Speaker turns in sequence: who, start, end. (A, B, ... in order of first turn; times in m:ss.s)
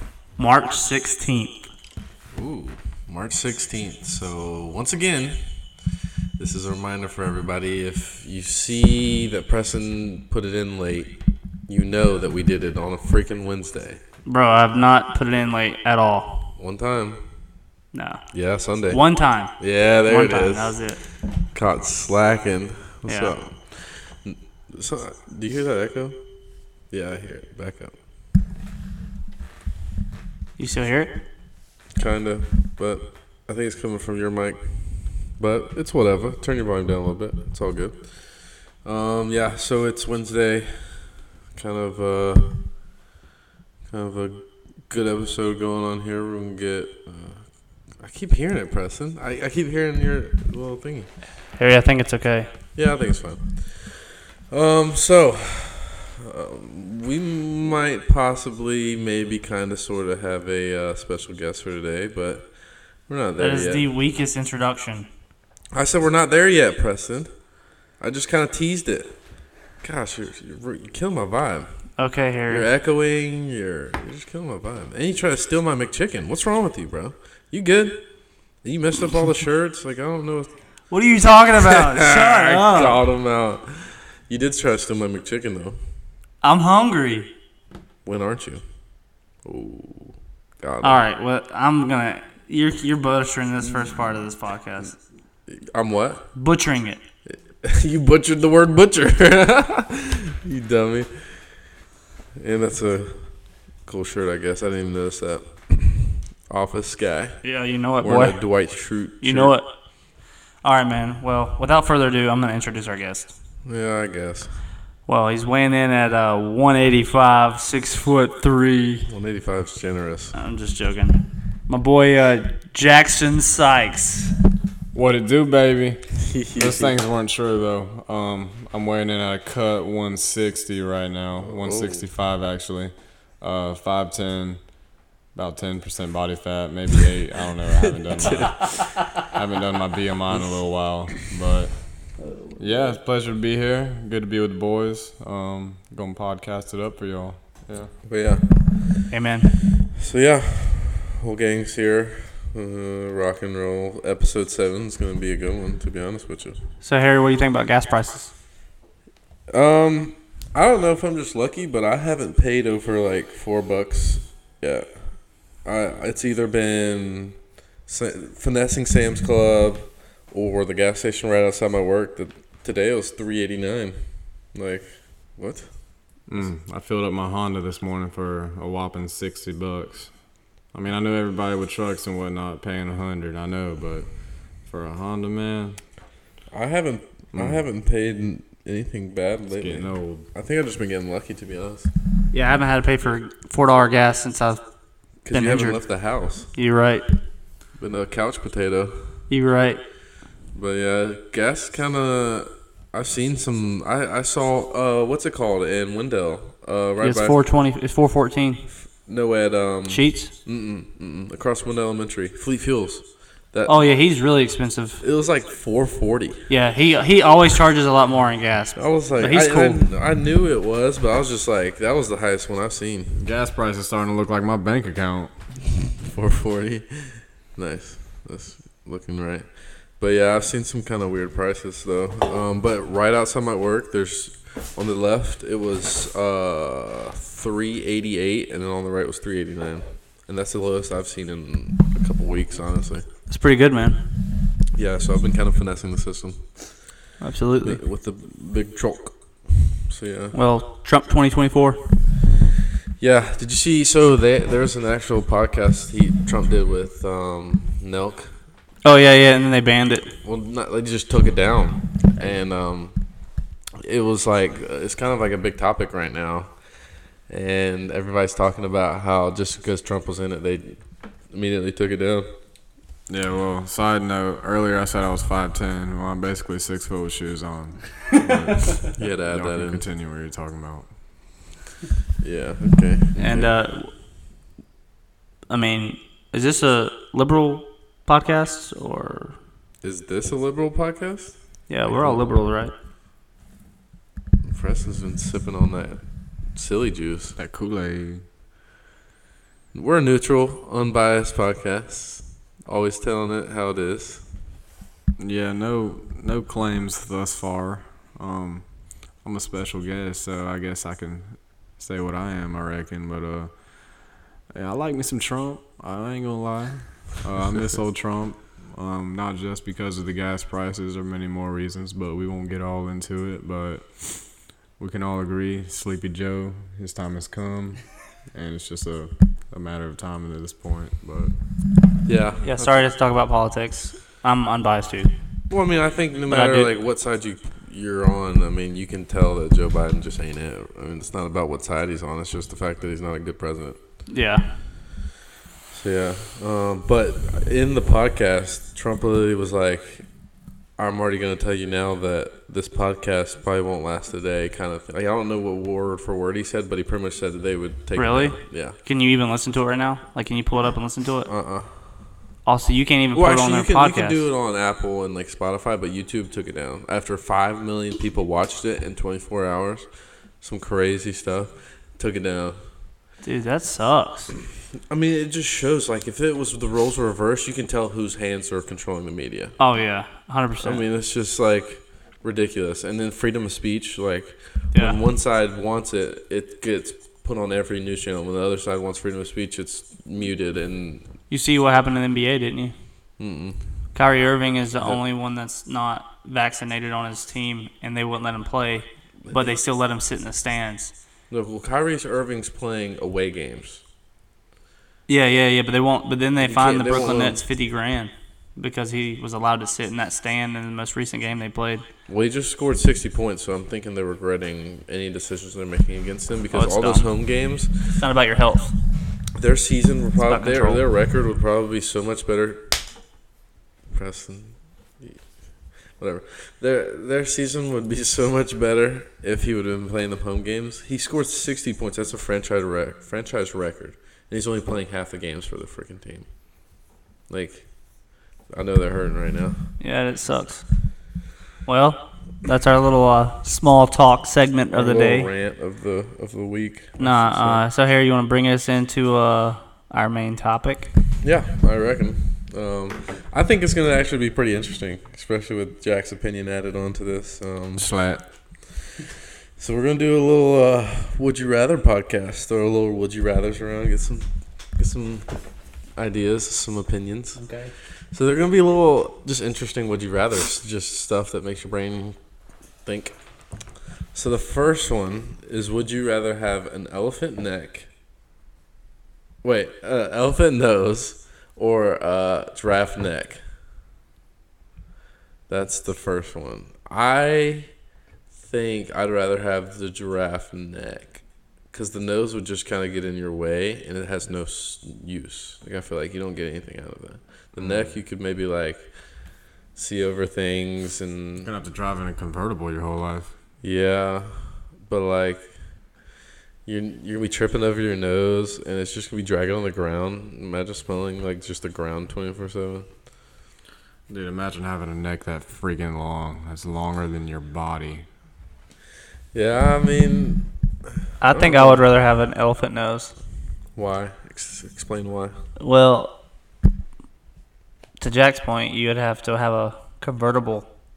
0:00.4-0:01.7 A
0:02.3-0:05.4 B
0:06.4-0:11.1 B
0:11.7-0:14.0 B
0:14.2-0:16.4 A
0:16.6-0:17.2 B
0:17.9-0:18.2 A
0:18.3-0:19.0 B
0:18.9-0:21.0 A
0:19.6-0:20.8 B
0:21.5-0:26.2 B
0:23.1-0:23.3 A
0:26.9-0:27.9 B
0:30.6-0:31.2 A
0:32.0-0:34.6 B
0:35.3-0:42.5 B
0:43.9-0:47.5 B
0:48.0-0:51.1 B
0:51.5-0:52.5 A
0:52.8-1:03.8 B
1:03.4-1:05.1 A
1:05.7-1:07.3 B
1:08.0-1:09.1 B
1:09.8-1:11.7 B
1:12.0-1:12.7 A
1:12.5-1:18.0 B
1:18.6-1:20.6 B
1:20.9-1:23.0 A
1:21.6-1:25.8 B
1:26.4-1:27.3 A
1:28.0-1:28.6 B
1:29.4-1:31.0 B
1:30.8-1:35.0 A
1:35.5-1:36.3 B
1:36.4-1:37.0 A
1:37.3-1:41.4 B
1:42.4-1:43.3 B
1:43.8-1:47.4 B
1:47.4-1:48.4 A
1:48.0-1:49.5 B
1:49.2-1:49.7 A
1:50.6-1:53.3 A
1:53.6-1:54.5 B
1:55.1-1:59.1 A
1:59.0-2:00.3 B
2:00.3-2:04.3 A
2:04.9-2:14.6 C
2:06.2-2:06.9 B
2:11.4-2:12.0 B
2:15.3-2:21.8 C
2:18.1-2:18.9 B
2:20.3-2:20.6 B
2:22.2-2:22.8 A
2:22.6-2:27.9 C
2:28.0-2:29.1 B
2:29.1-2:29.5 A
2:29.9-2:36.6 B
2:36.8-2:38.3 A
2:39.5-2:45.1 B
2:45.6-2:54.0 B
2:54.5-2:55.7 B
2:56.3-3:00.1 C
3:00.7-3:04.1 C
3:04.6-3:05.8 C
3:06.5-3:11.9 B
3:07.3-3:07.6 C
3:09.4-3:10.3 C
3:12.3-3:14.6 A
3:15.2-3:16.5 B
3:15.3-3:15.8 A
3:16.5-3:17.1 A
3:17.8-3:19.1 B
3:19.3-3:19.8 A
3:20.5-3:27.4 B
3:27.0-3:28.6 A
3:28.7-3:33.8 B
3:29.9-3:30.3 A
3:33.6-3:35.0 A
3:35.0-3:36.4 B
3:36.5-3:39.8 A
3:38.8-3:43.2 B
3:43.2-3:45.3 C
3:46.0-4:03.0 B
4:03.3-4:04.0 A
4:04.7-4:06.8 B
4:07.2-4:07.8 A
4:07.6-4:10.4 B
4:10.3-4:11.8 A
4:13.0-4:18.3 B
4:18.8-4:20.1 A
4:20.2-4:23.0 B
4:23.8-4:26.5 B
4:27.3-4:32.3 B
4:33.1-4:40.9 C
4:38.9-4:39.8 B
4:42.2-4:43.5 B
4:43.2-4:43.9 A
4:45.5-4:49.4 A
4:49.8-4:52.3 B
4:51.7-4:52.7 A
4:54.5-4:56.0 B
4:56.5-4:57.4 B
4:57.4-4:58.2 C
4:59.7-5:04.2 B
5:05.2-5:08.7 C
5:09.2-5:13.5 C
5:14.5-5:24.2 C
5:24.8-5:31.3 C
5:32.0-5:32.9 B
5:32.4-5:35.1 A
5:35.5-5:43.8 B
5:36.3-5:36.7 A
5:44.1-5:44.4 A
5:45.7-5:50.1 B
5:50.8-5:58.8 B
5:58.0-6:01.3 A
6:01.3-6:01.7 B
6:02.4-6:04.2 A
6:03.1-6:09.9 B
6:10.4-6:12.6 B
6:13.2-6:14.3 A
6:14.9-6:19.5 B
6:19.6-6:20.8 A
6:20.6-6:31.0 B
6:31.3-6:32.7 A
6:33.2-6:33.6 B
6:33.9-6:40.9 A
6:39.2-6:39.5 B
6:41.3-6:43.8 B
6:45.1-6:51.8 A
6:46.4-6:47.4 B
6:52.1-6:57.9 B
6:56.5-6:57.1 A
6:57.9-6:58.7 A
6:59.4-7:02.6 B
7:00.2-7:00.8 A
7:03.9-7:05.2 B
7:05.9-7:16.3 B
7:17.3-7:17.7 B
7:18.5-7:19.6 B
7:19.8-7:20.6 A
7:21.6-7:25.3 A
7:24.7-7:27.6 B
7:27.0-7:30.9 A
7:31.2-7:37.9 B
7:37.8-7:38.2 C
7:39.6-7:45.3 B
7:46.0-7:47.4 B
7:47.4-7:47.7 A
7:48.1-7:52.2 B
7:52.8-7:53.2 B
7:54.1-7:57.9 B
7:59.4-8:03.4 B
8:05.5-8:07.7 B
8:08.3-8:18.9 B
8:17.6-8:18.0 C
8:19.7-8:21.5 B
8:21.4-8:23.3 C
8:23.6-8:25.5 B
8:26.6-8:32.9 B
8:34.1-8:38.0 C
8:39.3-8:40.5 B
8:41.2-8:43.1 A
8:41.2-8:41.8 B
8:43.8-8:45.4 B
8:45.6-8:46.1 A
8:48.0-8:50.7 A